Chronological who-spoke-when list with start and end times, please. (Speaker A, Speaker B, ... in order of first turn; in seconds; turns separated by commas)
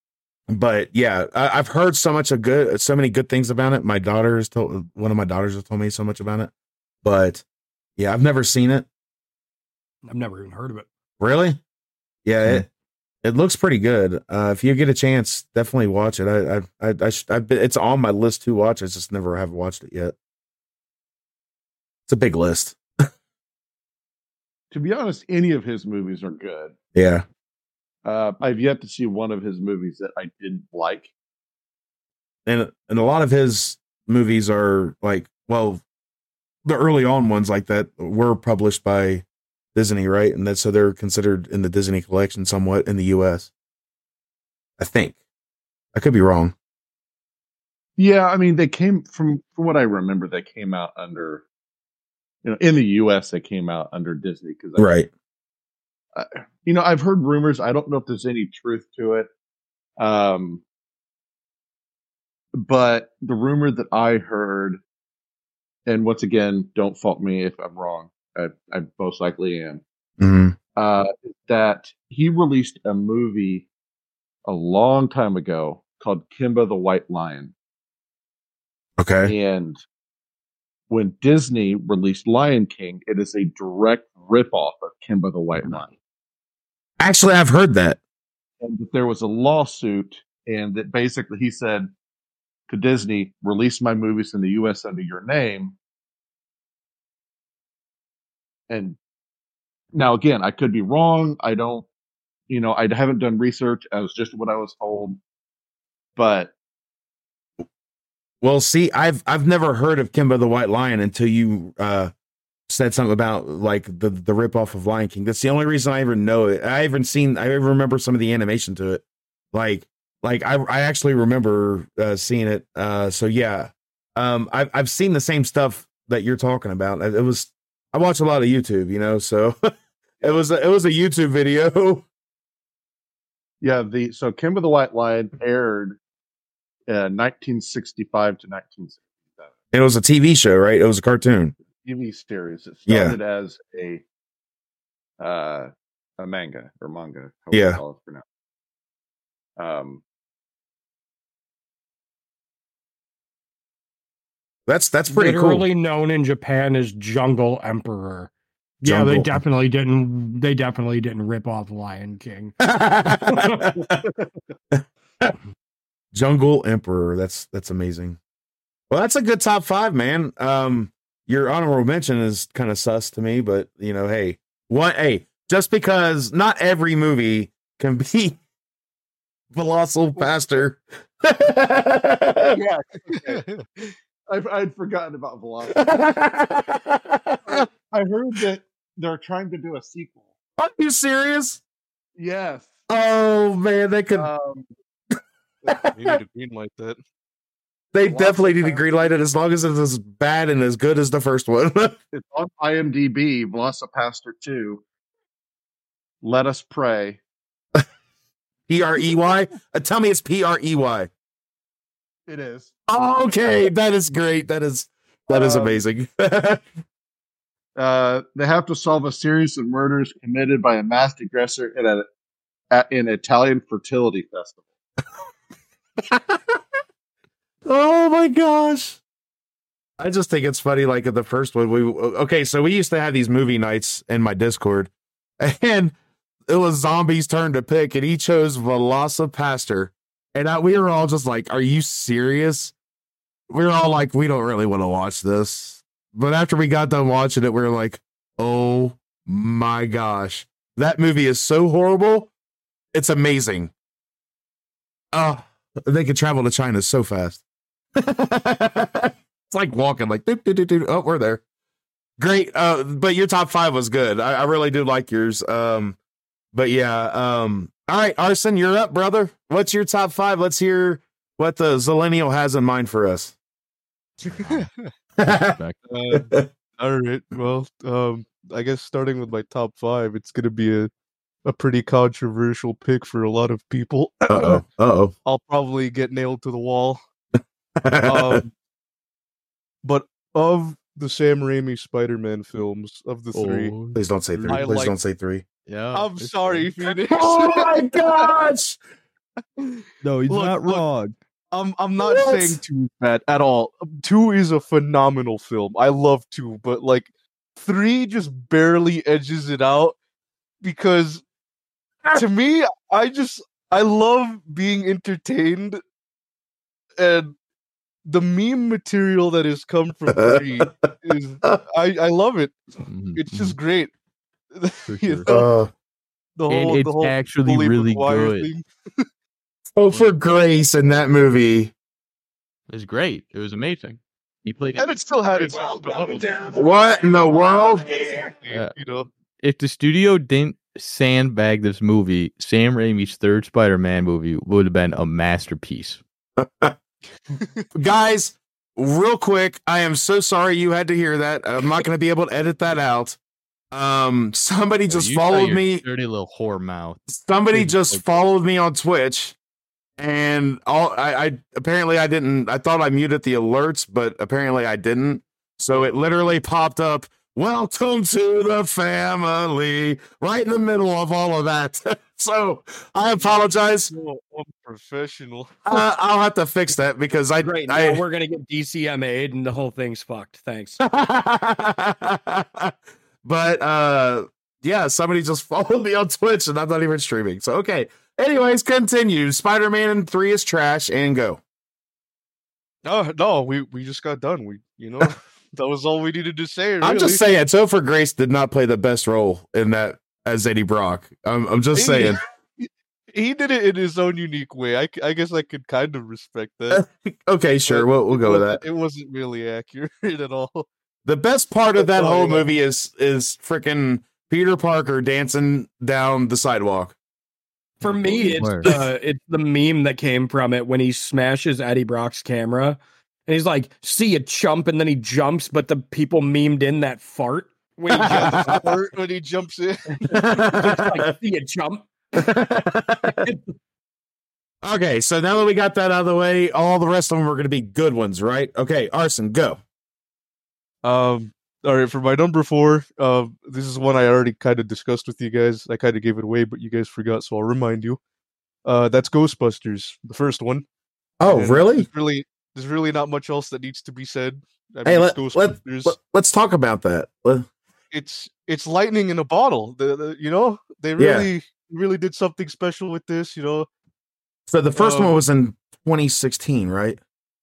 Speaker A: 0.5-6.5, Speaker A: 7.0-7.4, Speaker A: 8.0-8.9, Speaker B: 10.1-10.9, Speaker A: 11.2-11.6, Speaker A: 12.2-12.6, Speaker A: 13.2-20.1, Speaker A: 22.1-22.8, Speaker C: 24.7-26.7, Speaker A: 26.9-27.2, Speaker C: 28.0-31.1, Speaker A: 32.5-35.8, Speaker A: 36.6-39.2, Speaker A: 39.7-43.5, Speaker A: 44.8-45.1, Speaker A: 45.9-46.5, Speaker C: 48.0-51.4, Speaker C: 52.4-54.9, Speaker A: 54.8-55.1, Speaker C: 56.1-59.3, Speaker C: 60.0-60.6, Speaker C: 62.6-64.8, Speaker C: 65.8-69.8, Speaker A: 70.2-70.5, Speaker C: 70.8-73.7, Speaker C: 74.5-77.5, Speaker A: 79.0-79.3, Speaker C: 79.2-79.8, Speaker C: 80.9-85.9, Speaker A: 87.0-88.0, Speaker C: 88.6-91.9, Speaker C: 92.7-95.8, Speaker C: 98.7-99.0, Speaker C: 99.9-101.8, Speaker C: 102.5-105.2, Speaker C: 106.2-106.5, Speaker A: 108.4-112.1, Speaker A: 112.7-129.6, Speaker A: 130.2-132.0, Speaker C: 133.6-136.0, Speaker C: 136.9-139.5, Speaker A: 139.7-141.5, Speaker C: 141.8-144.0, Speaker A: 142.9-143.2, Speaker C: 145.2-148.2, Speaker A: 147.5-147.8, Speaker C: 149.6-150.0, Speaker A: 154.7-155.7, Speaker B: 155.1-158.3, Speaker B: 158.8-163.6, Speaker A: 158.8-159.4, Speaker A: 162.6-164.0, Speaker A: 164.7-165.3, Speaker A: 166.1-168.2, Speaker A: 168.9-178.4, Speaker A: 179.5-182.5, Speaker C: 180.2-180.7, Speaker C: 182.5-185.9, Speaker D: 183.1-183.4, Speaker A: 185.7-187.7, Speaker C: 187.4-190.2, Speaker A: 190.6-191.6, Speaker C: 192.2-192.7, Speaker A: 192.9-194.3, Speaker C: 194.1-194.7, Speaker A: 195.7-196.0, Speaker D: 195.9-197.0, Speaker A: 197.9-202.0, Speaker B: 198.2-198.7, Speaker C: 202.1-204.8, Speaker C: 206.2-207.2, Speaker A: 208.7-211.1, Speaker C: 212.3-212.7, Speaker A: 212.9-216.6, Speaker C: 215.3-215.8, Speaker C: 217.8-222.1, Speaker C: 222.7-224.6, Speaker A: 226.1-226.4, Speaker A: 227.6-229.0, Speaker A: 230.0-235.9, Speaker A: 236.5-242.7, Speaker A: 243.5-252.3, Speaker A: 252.9-253.7, Speaker A: 255.1-257.4, Speaker A: 258.0-261.4, Speaker A: 262.2-266.0, Speaker A: 266.5-273.3, Speaker E: 274.3-274.7, Speaker D: 274.4-274.9, Speaker A: 275.2-275.6, Speaker E: 275.2-275.8, Speaker D: 275.9-280.9, Speaker A: 276.1-276.5, Speaker D: 281.4-284.6, Speaker A: 284.3-285.1, Speaker D: 285.2-287.0, Speaker A: 287.8-288.4, Speaker D: 288.0-288.5, Speaker D: 289.8-293.7, Speaker E: 293.3-294.7, Speaker A: 293.9-295.4, Speaker D: 294.5-294.9, Speaker E: 295.6-296.7, Speaker D: 295.9-298.3, Speaker A: 297.1-298.8, Speaker D: 299.6-300.8, Speaker E: 300.0-301.1, Speaker D: 301.5-310.0, Speaker A: 302.0-302.6, Speaker D: 310.6-311.2, Speaker D: 312.1-315.8, Speaker D: 317.0-317.3, Speaker D: 318.1-322.6, Speaker A: 320.1-320.9, Speaker E: 322.8-323.6, Speaker D: 323.1-323.9, Speaker D: 324.5-325.5, Speaker E: 324.9-325.4, Speaker A: 325.3-325.7, Speaker D: 326.4-328.7, Speaker E: 326.5-328.5, Speaker A: 329.8-331.7, Speaker E: 332.7-334.9, Speaker D: 334.8-336.3, Speaker A: 336.4-338.2, Speaker D: 338.4-339.1, Speaker E: 339.4-346.0, Speaker A: 346.4-346.7, Speaker D: 347.4-347.7, Speaker A: 347.7-353.2, Speaker A: 353.7-355.8, Speaker E: 354.9-358.1, Speaker A: 357.1-359.4, Speaker A: 360.0-373.9, Speaker D: 373.2-375.7, Speaker A: 375.6-378.0, Speaker B: 377.4-380.8, Speaker A: 380.8-391.4, Speaker D: 392.8-397.2, Speaker A: 396.8-402.2, Speaker D: 401.7-406.8, Speaker A: 406.7-408.6, Speaker D: 407.7-410.6, Speaker A: 411.0-416.9, Speaker D: 411.8-412.5, Speaker B: 417.8-428.7, Speaker E: 417.8-418.7, Speaker A: 427.9-428.6, Speaker D: 428.0-430.0, Speaker B: 430.0-432.3, Speaker A: 430.1-431.1, Speaker A: 432.1-433.2, Speaker B: 433.0-433.4, Speaker A: 434.6-439.6, Speaker D: 440.8-448.0, Speaker D: 448.6-450.6, Speaker A: 451.2-451.9, Speaker D: 451.3-455.9, Speaker A: 454.9-457.5, Speaker D: 457.9-463.7, Speaker A: 461.0-461.3, Speaker A: 464.5-467.0, Speaker D: 464.8-465.2